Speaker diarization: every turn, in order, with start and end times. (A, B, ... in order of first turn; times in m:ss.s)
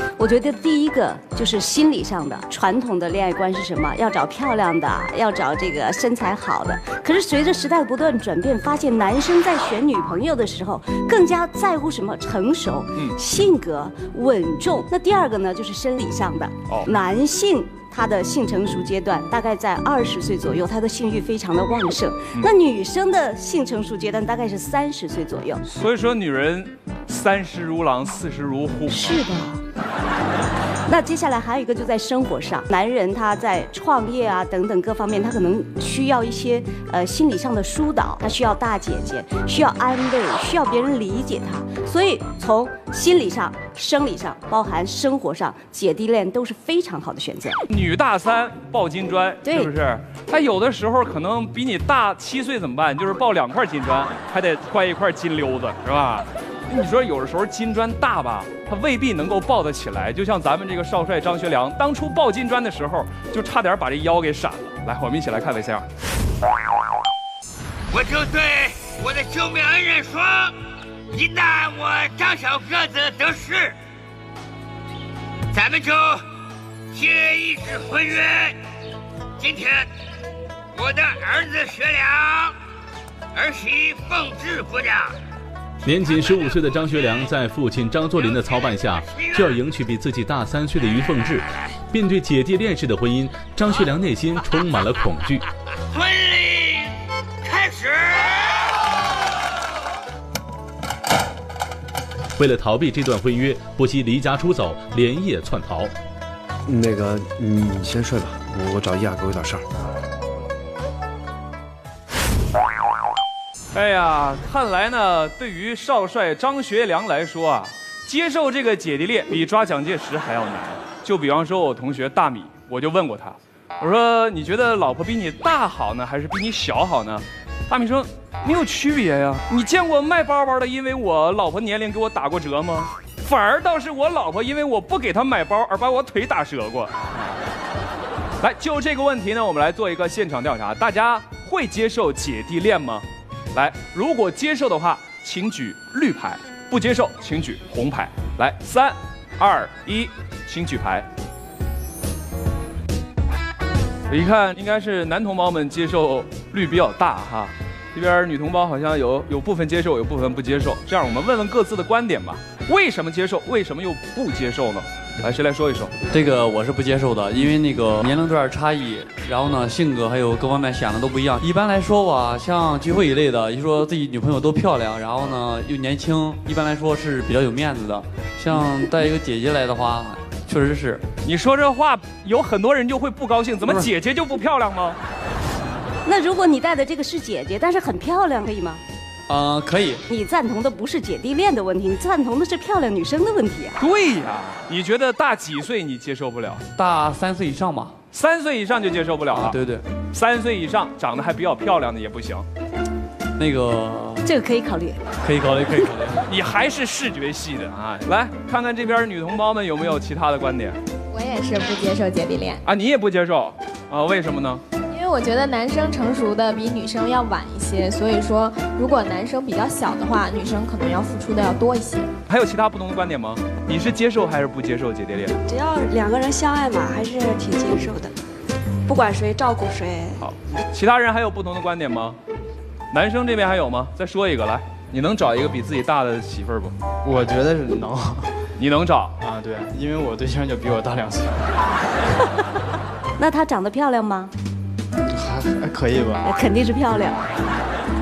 0:00.2-0:25.6 A
0:25.6-0:29.2 B
0:28.9-0:29.6 A
0:30.8-0:47.6 A
0:47.7-1:05.8 B
0:49.4-0:49.7 A
1:07.9-1:10.5 C
1:11.1-1:13.7 C
1:15.5-1:16.2 C
1:16.9-1:18.5 C
1:19.4-1:19.8 C
1:20.8-1:22.5 C
1:23.3-1:25.1 C
1:25.8-1:35.4 D
1:35.9-1:36.8 C
1:37.4-1:38.4 C
1:42.4-1:45.9 D
1:46.7-1:49.6 E
1:53.7-2:17.3 B
2:18.4-2:31.1 B
2:34.1-2:45.9 B
2:46.1-3:01.0 F
3:01.2-3:05.0 B
3:06.0-3:08.8 A
3:09.3-3:10.0 F
3:10.1-3:13.8 A
3:13.8-3:16.6 B
3:16.8-3:17.9 F
3:18.1-3:22.4 B
3:19.4-3:19.8 F
3:23.4-3:24.2 F
3:24.2-3:25.0 A
3:25.2-3:26.2 F
3:26.2-3:30.8 B
3:31.1-3:32.6 G
3:32.6-3:34.6 B
3:34.9-3:42.1 G
3:42.3-3:45.3 B
3:45.5-3:48.0 H
3:48.9-3:50.1 H
3:50.2-3:52.2 B
3:52.9-3:56.7 B
3:57.0-3:58.3 I
3:58.6-3:59.1 B
3:59.2-4:01.4 I
4:03.2-4:04.3 A
4:05.1-4:06.3 I
4:06.2-4:07.3 A